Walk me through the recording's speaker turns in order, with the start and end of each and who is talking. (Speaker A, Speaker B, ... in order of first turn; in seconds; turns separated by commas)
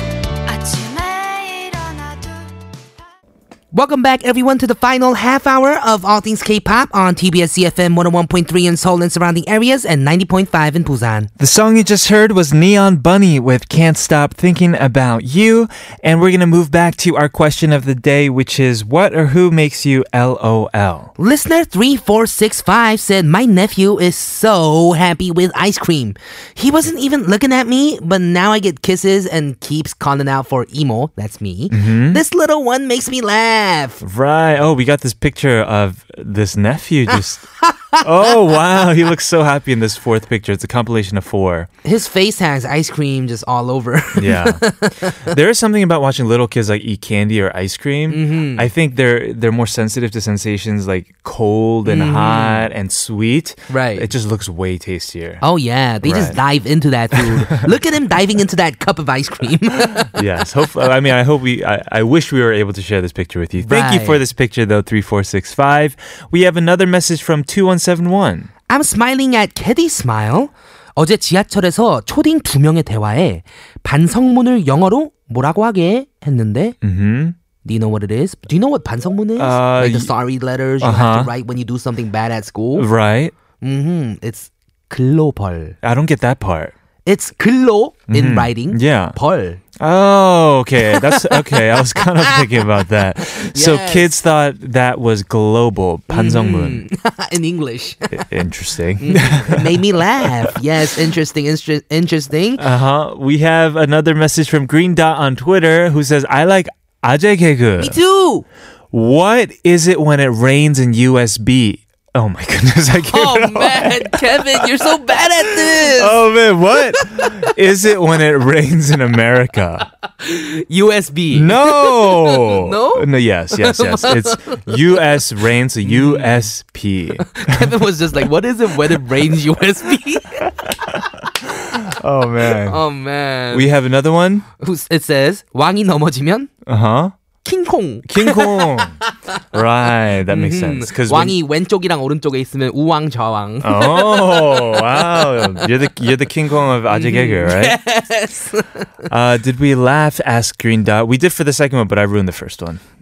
Speaker A: 0.5-2.5, Speaker B: 3.7-11.3, Speaker C: 11.4-21.1, Speaker B: 21.2-34.0, Speaker C: 31.7-32.2, Speaker C: 34.0-37.5, Speaker C: 38.0-41.7, Speaker B: 41.8-45.3, Speaker C: 44.1-44.6, Speaker C: 45.2-55.4, Speaker B: 48.1-48.7, Speaker B: 51.9-52.7, Speaker B: 53.7-54.1, Speaker B: 55.4-60.1, Speaker C: 56.0-56.4, Speaker C: 57.1-57.7, Speaker C: 60.0-68.5, Speaker B: 63.6-64.2, Speaker B: 68.7-76.8, Speaker C: 76.8-77.3, Speaker B: 77.6-82.9, Speaker C: 79.4-80.1, Speaker C: 80.8-81.3, Speaker C: 82.8-83.3, Speaker B: 83.6-85.7, Speaker C: 85.8-86.7, Speaker B: 87.0-89.6, Speaker C: 88.1-89.2, Speaker C: 89.8-96.8, Speaker B: 90.9-92.6, Speaker B: 93.4-94.1, Speaker B: 96.1-98.2, Speaker C: 98.1-100.5, Speaker B: 99.0-102.6, Speaker C: 102.6-108.0, Speaker B: 107.8-108.4, Speaker C: 108.9-119.9, Speaker B: 113.0-116.2, Speaker B: 116.8-117.5, Speaker B: 120.2-124.9, Speaker C: 121.3-127.7, Speaker B: 125.8-126.5, Speaker B: 127.3-130.5, Speaker C: 131.4-132.8, Speaker B: 132.6-133.7, Speaker C: 133.5-134.4, Speaker B: 134.6-136.5, Speaker C: 136.7-137.1, Speaker B: 137.4-139.1, Speaker C: 138.1-139.0, Speaker C: 139.5-141.3, Speaker B: 140.3-145.7, Speaker C: 143.6-147.8, Speaker B: 146.9-148.9, Speaker C: 149.1-152.8